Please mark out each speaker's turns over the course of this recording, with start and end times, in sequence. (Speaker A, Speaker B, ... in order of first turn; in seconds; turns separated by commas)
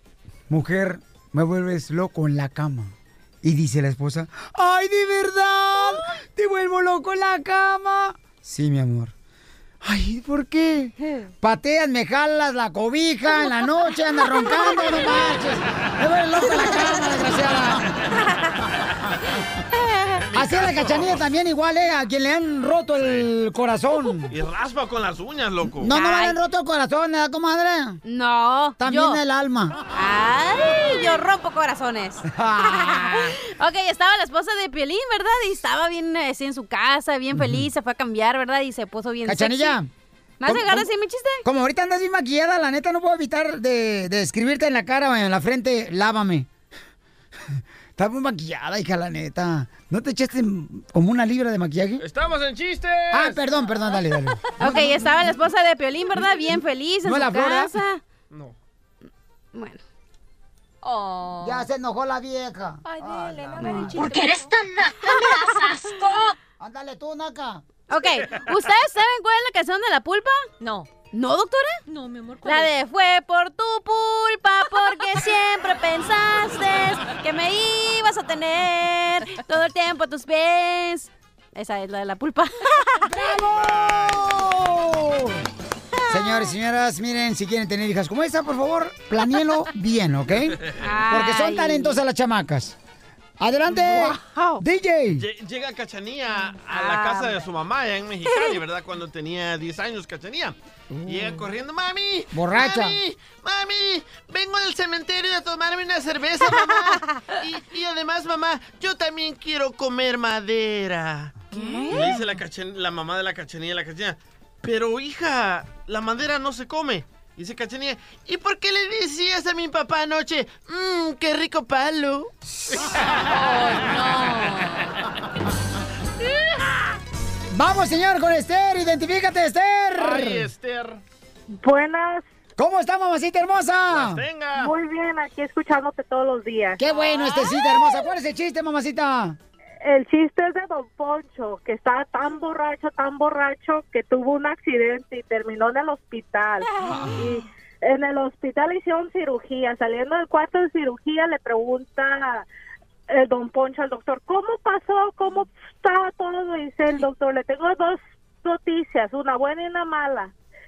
Speaker A: 0.5-9.1, Speaker A: 9.8-17.9, Speaker B: 20.2-21.2, Speaker A: 20.3-24.4, Speaker B: 23.0-23.3, Speaker B: 24.3-25.9, Speaker A: 25.8-28.0, Speaker C: 25.9-26.4, Speaker C: 28.0-29.2, Speaker A: 28.8-29.8, Speaker C: 29.9-39.8, Speaker A: 32.3-33.3, Speaker A: 37.3-37.7, Speaker A: 39.2-39.9, Speaker C: 40.4-41.4, Speaker A: 40.4-40.9, Speaker A: 41.4-46.5, Speaker A: 47.5-52.0, Speaker B: 52.0-53.6, Speaker A: 53.1-55.3, Speaker C: 54.6-58.0, Speaker A: 57.0-57.7, Speaker C: 59.5-59.8, Speaker D: 60.8-61.6, Speaker A: 61.4-64.2, Speaker D: 62.9-64.5, Speaker C: 63.6-64.2, Speaker D: 65.5-66.1, Speaker A: 66.6-67.6, Speaker C: 67.9-70.5, Speaker D: 70.6-70.9, Speaker C: 71.1-71.8, Speaker D: 71.9-72.7, Speaker C: 72.4-83.2, Speaker A: 83.0-85.4, Speaker A: 86.1-92.8, Speaker C: 86.1-86.5, Speaker C: 90.8-92.0, Speaker A: 93.4-95.2, Speaker C: 93.7-94.6, Speaker B: 95.2-122.3, Speaker C: 96.7-97.3, Speaker A: 102.3-103.0, Speaker C: 111.5-112.1, Speaker D: 123.3-124.9, Speaker B: 123.6-124.0, Speaker A: 127.5-130.5, Speaker B: 130.0-131.0, Speaker E: 131.6-132.2, Speaker A: 132.6-134.2, Speaker B: 133.9-134.7, Speaker E: 134.5-136.9, Speaker A: 136.8-139.4, Speaker C: 137.0-137.5, Speaker E: 139.8-152.4, Speaker E: 153.1-160.3